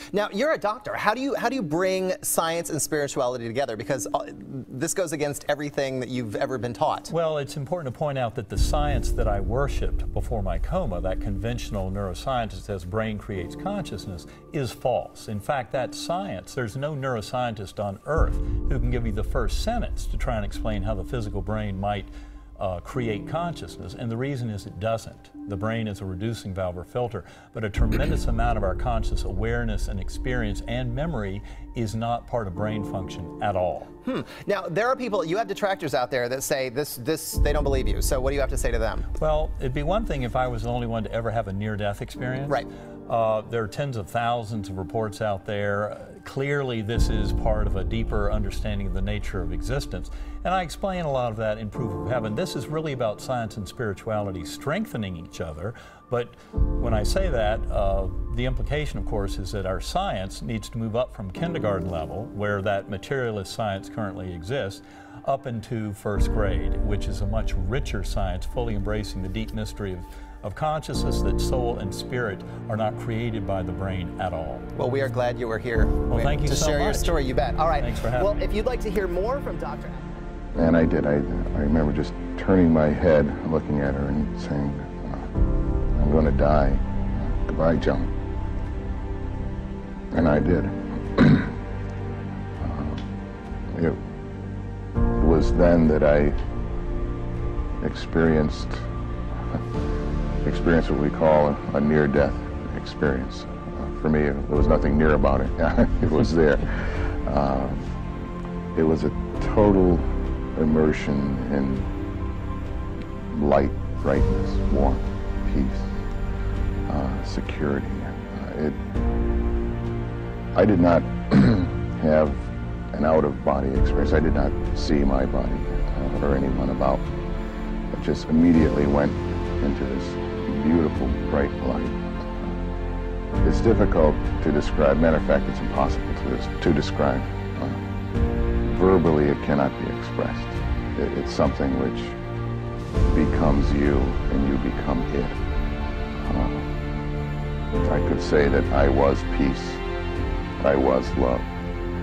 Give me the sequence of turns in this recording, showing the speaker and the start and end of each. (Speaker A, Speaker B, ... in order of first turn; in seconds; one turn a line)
Speaker A: 0.1-7.1
Speaker B: 7.1-33.9
Speaker A: 34.0-39.1
Speaker B: 39.2-74.7
Speaker A: 74.7-80.0
Speaker B: 76.1-77.1
Speaker B: 77.8-78.3
Speaker C: 80.5-85.3
Speaker C: 85.9-88.1
Speaker C: 90.1-91.5
Speaker C: 92.6-93.0
Speaker C: 93.7-94.0
Speaker C: 95.1-96.4
Speaker C: 97.8-98.9
Speaker C: 100.4-107.9
Speaker C: 108.7-111.9
Speaker C: 113.3-116.0
Speaker C: 116.9-118.8
Speaker C: 120.5-127.1
Speaker C: 127.9-132.5
Speaker C: 133.4-137.8
Speaker C: 138.6-142.2
Speaker C: 143.1-145.4
Speaker C: 146.2-146.7
Speaker C: 147.8-149.8
Speaker C: 150.6-151.5